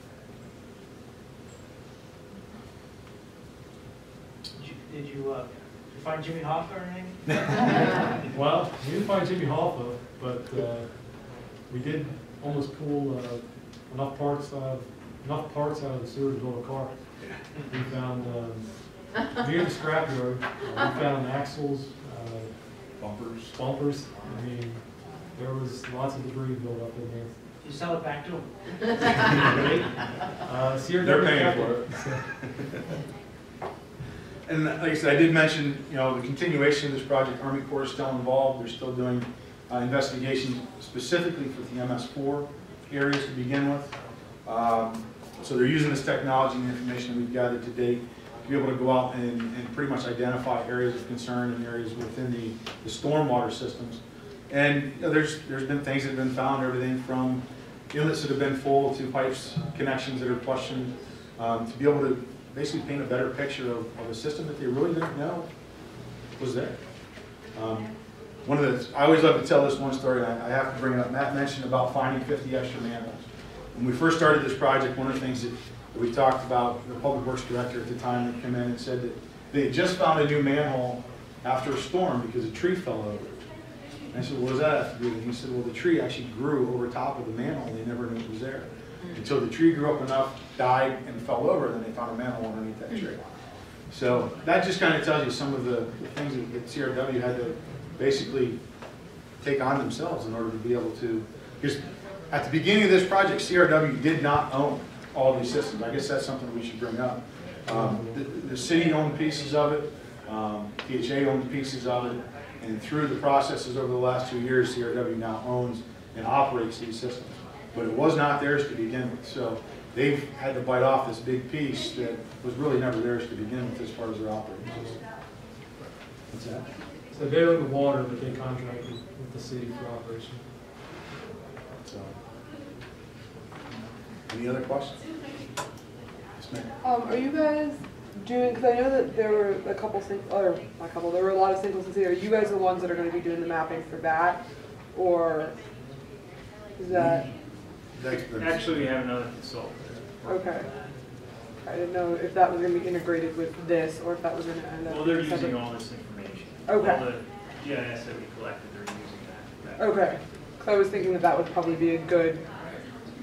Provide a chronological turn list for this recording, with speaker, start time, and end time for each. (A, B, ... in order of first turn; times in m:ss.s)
0:04.6-0:08.1 A
0:08.3-0:11.0 B
0:11.7-0:16.9 B
0:17.7-0:22.5 B
0:23.0-0:23.5 C
0:23.5-0:24.8 B
0:25.3-0:27.3 B
0:27.6-0:29.5 A
0:29.4-0:29.9 B
0:30.4-0:32.2 B
0:31.0-0:33.0 C
0:34.4-1:05.5 C
1:06.4-1:06.8 C
1:07.5-1:07.9 C
1:08.4-1:23.4 C
1:24.1-1:33.3 C
1:33.9-1:38.6 C
1:39.4-2:05.0 C
1:47.7-1:48.2 B
2:06.3-2:06.6 C
2:07.1-2:10.4 B
2:11.9-2:12.2 C
2:13.7-2:15.0 C
2:16.4-2:16.7 C
2:16.8-2:24.4 D
2:24.9-2:25.6 D
2:26.8-2:27.2 D
2:26.9-2:27.3 C
2:27.9-2:28.9 C
2:28.1-2:30.8 E
2:30.2-2:30.7 D
2:31.6-2:35.6 D
2:34.8-2:40.1 E
2:36.6-2:37.1 D
2:39.8-2:42.4 D